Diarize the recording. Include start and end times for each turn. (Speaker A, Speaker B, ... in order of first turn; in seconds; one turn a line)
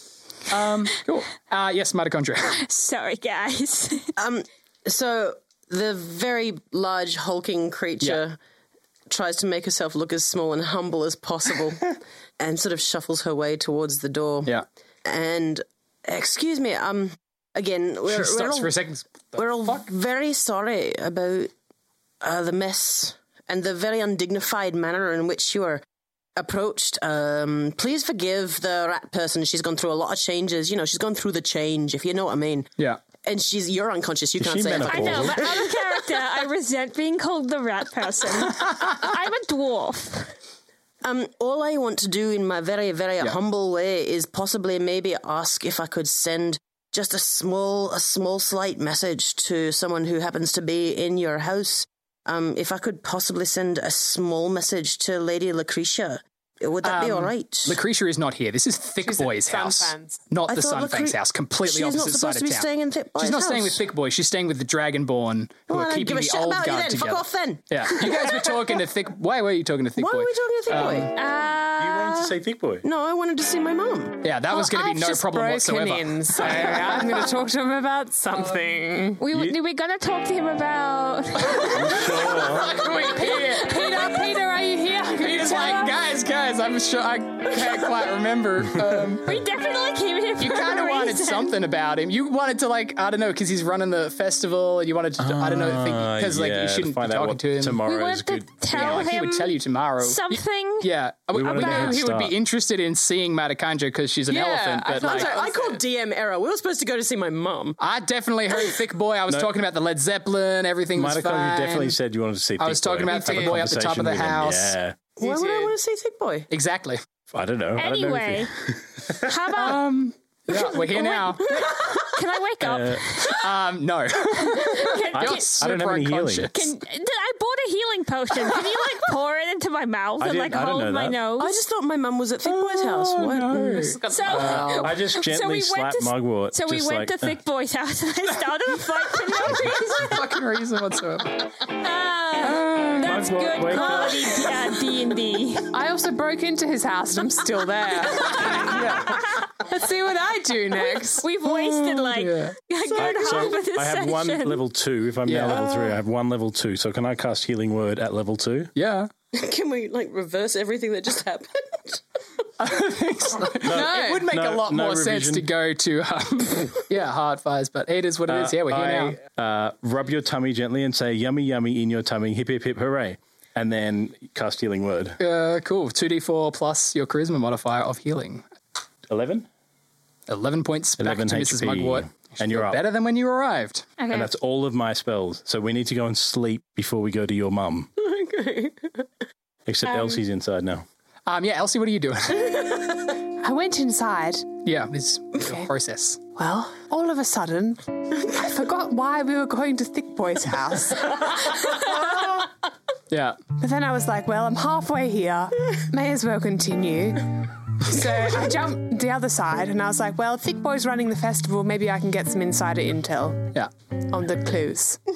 Speaker A: 0.5-2.5
Speaker B: 2.5-4.1
Speaker C: 4.2-8.4
Speaker C: 9.1-14.5
Speaker C: 15.1-18.8
Speaker A: 18.1-19.9
Speaker C: 19.4-21.5
Speaker C: 22.2-25.8
Speaker C: 26.4-32.7
Speaker C: 33.2-35.6
Speaker D: 34.4-35.6
Speaker B: 34.8-40.3
Speaker C: 41.0-57.8
Speaker A: 56.8-71.1
Speaker E: 59.0-60.3
Speaker C: 60.5-63.8
Speaker C: 65.7-68.8
Speaker C: 70.0-71.2
Speaker B: 71.1-72.3
Speaker D: 71.8-72.8
Speaker C: 72.8-74.2
Speaker A: 74.2-77.3
Speaker E: 74.5-79.2
Speaker B: 79.2-82.3
Speaker D: 79.3-79.6
Speaker D: 81.5-82.8
Speaker A: 81.9-83.9
Speaker E: 82.1-85.9
Speaker B: 82.8-84.3
Speaker A: 85.2-89.4
Speaker B: 89.2-91.5
Speaker A: 90.4-97.8
Speaker D: 95.2-99.1
Speaker B: 97.8-100.9
Speaker A: 98.7-105.4
Speaker D: 101.3-102.3
Speaker E: 101.6-101.9
Speaker C: 104.3-107.8
Speaker E: 105.0-105.8
Speaker A: 107.8-112.0
Speaker D: 110.9-115.0
Speaker A: 112.6-114.8
Speaker E: 113.1-113.5
Speaker C: 115.2-116.5
Speaker E: 115.2-115.8
Speaker A: 116.5-117.0
Speaker D: 117.3-119.5
Speaker B: 117.8-118.5
Speaker B: 119.1-119.8
Speaker A: 119.5-121.7
Speaker B: 120.5-123.5
Speaker D: 122.6-123.1
Speaker A: 123.2-126.7
Speaker B: 124.3-125.5
Speaker D: 125.1-126.5
Speaker B: 126.5-131.6
Speaker D: 130.2-131.2
Speaker C: 131.4-133.8
Speaker A: 132.4-134.0
Speaker E: 133.5-134.7
Speaker B: 134.1-140.2
Speaker D: 134.3-137.4
Speaker C: 134.3-134.8
Speaker A: 139.9-141.5
Speaker B: 141.6-145.7
Speaker A: 142.4-143.2
Speaker D: 143.0-144.4
Speaker E: 145.7-151.3
Speaker A: 148.3-149.4
Speaker B: 150.8-154.6
Speaker A: 151.5-152.6
Speaker C: 152.9-153.5
Speaker D: 152.9-158.7
Speaker A: 155.3-155.8
Speaker A: 158.8-159.1
Speaker C: 159.3-162.0
Speaker A: 162.6-169.2
Speaker D: 163.6-165.5
Speaker E: 163.7-164.3
Speaker D: 168.3-175.2
Speaker A: 175.2-178.4
Speaker D: 179.1-179.5
Speaker A: 180.3-183.9
Speaker D: 181.0-182.8
Speaker B: 184.0-184.3
Speaker D: 184.1-187.9
Speaker C: 188.0-189.1
Speaker D: 189.7-190.9
Speaker A: 191.3-192.9
Speaker E: 193.4-194.6
Speaker A: 194.6-196.2
Speaker E: 195.4-195.7
Speaker E: 196.3-202.4
Speaker A: 203.1-203.4
Speaker E: 203.6-213.5
Speaker E: 214.1-215.0